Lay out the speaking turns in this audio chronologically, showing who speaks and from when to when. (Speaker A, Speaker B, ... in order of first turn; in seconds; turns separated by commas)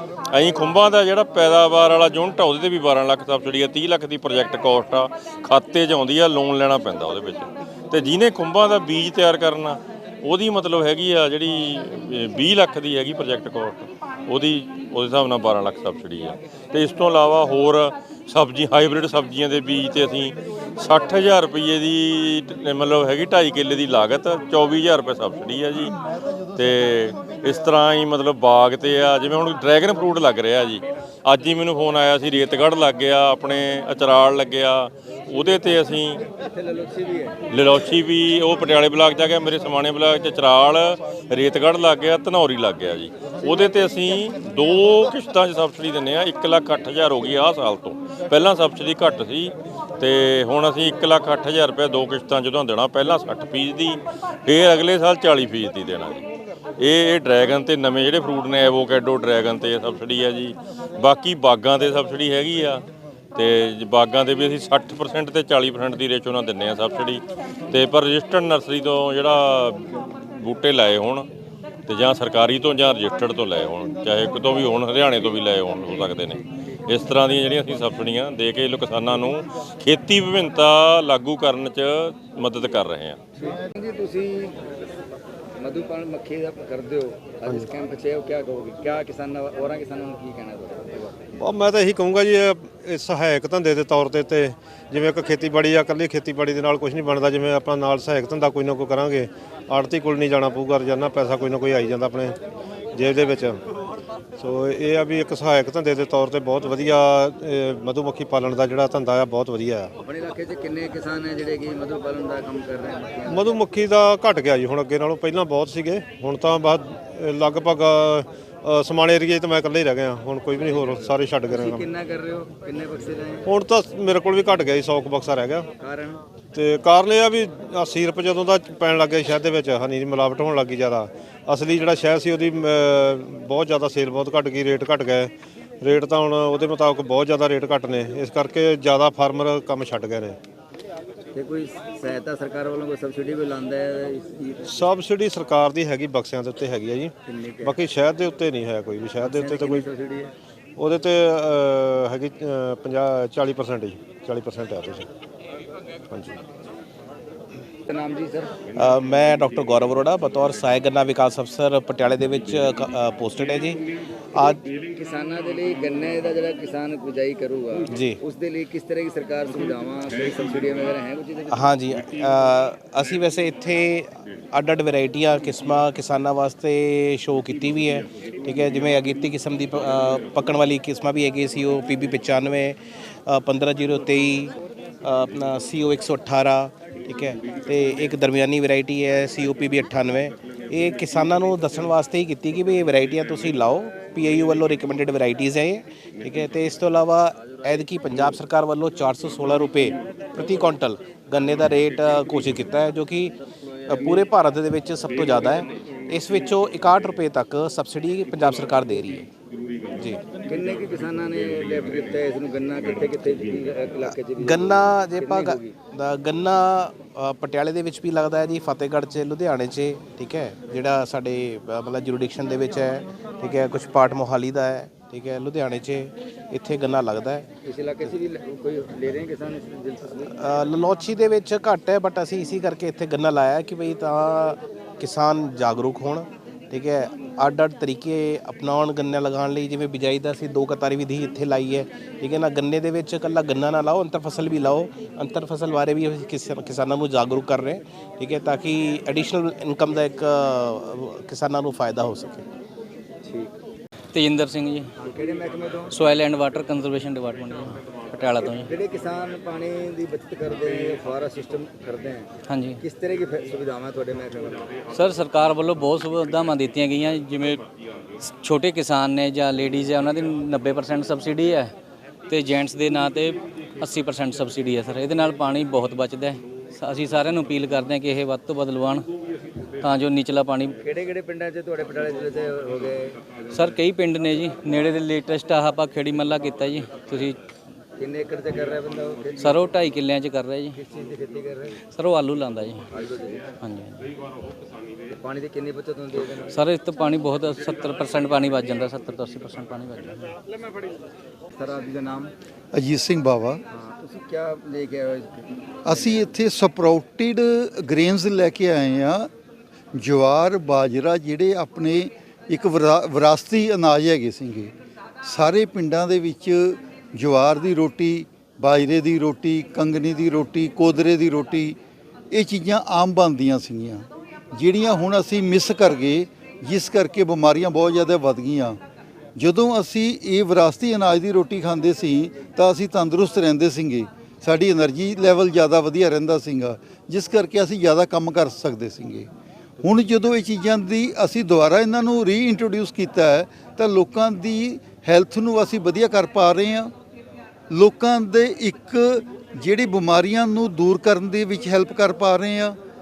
Speaker A: 0.3-25.9, Speaker A: 26.5-36.2, Speaker B: 36.5-37.4, Speaker A: 37.5-56.2, Speaker A: 56.8-62.8, Speaker A: 63.4-71.2, Speaker A: 71.9-83.2, Speaker B: 75.9-76.4, Speaker B: 83.4-84.6, Speaker B: 85.6-91.1, Speaker C: 91.4-102.3, Speaker C: 102.9-103.6, Speaker C: 104.4-109.9, Speaker B: 110.0-113.5, Speaker C: 113.3-121.8, Speaker B: 120.7-123.4, Speaker C: 123.5-125.7, Speaker B: 125.8-126.2, Speaker C: 126.5-135.3, Speaker C: 135.8-140.4, Speaker B: 141.3-144.8, Speaker C: 144.7-149.9, Speaker B: 147.2-147.8, Speaker B: 149.2-150.3, Speaker C: 150.8-155.1, Speaker C: 156.1-156.4, Speaker B: 157.9-158.5, Speaker D: 158.8-163.8, Speaker D: 164.3-164.7, Speaker B: 164.9-171.7, Speaker D: 167.9-168.2, Speaker D: 171.5-182.8, Speaker D: 183.3-184.5, Speaker D: 185.0-203.3, Speaker D: 203.9-209.3, Speaker B: 210.4-215.8, Speaker D: 214.0-227.4, Speaker B: 227.6-230.4, Speaker D: 230.3-252.4, Speaker B: 253.2-253.5, Speaker E: 254.1-254.9, Speaker B: 255.0-255.9, Speaker E: 255.9-258.7, Speaker B: 258.7-262.3, Speaker E: 262.5-262.8, Speaker B: 262.8-264.6, Speaker E: 264.9-267.6, Speaker E: 268.4-271.7, Speaker E: 272.3-279.0, Speaker E: 279.8-280.7, Speaker B: 280.8-283.2, Speaker E: 283.5-287.4, Speaker B: 288.0-289.9, Speaker E: 289.4-290.8, Speaker B: 290.8-291.8, Speaker E: 291.9-292.8, Speaker B: 292.9-293.5, Speaker E: 293.6-293.9, Speaker B: 295.1-296.6, Speaker E: 296.5-300.3, Speaker B: 301.6-302.3, Speaker F: 302.7-303.6, Speaker B: 303.7-306.4, Speaker F: 305.8-309.3, Speaker F: 309.9-321.8, Speaker F: 322.3-328.8, Speaker F: 329.4-339.3, Speaker F: 339.8-346.9, Speaker F: 347.7-352.8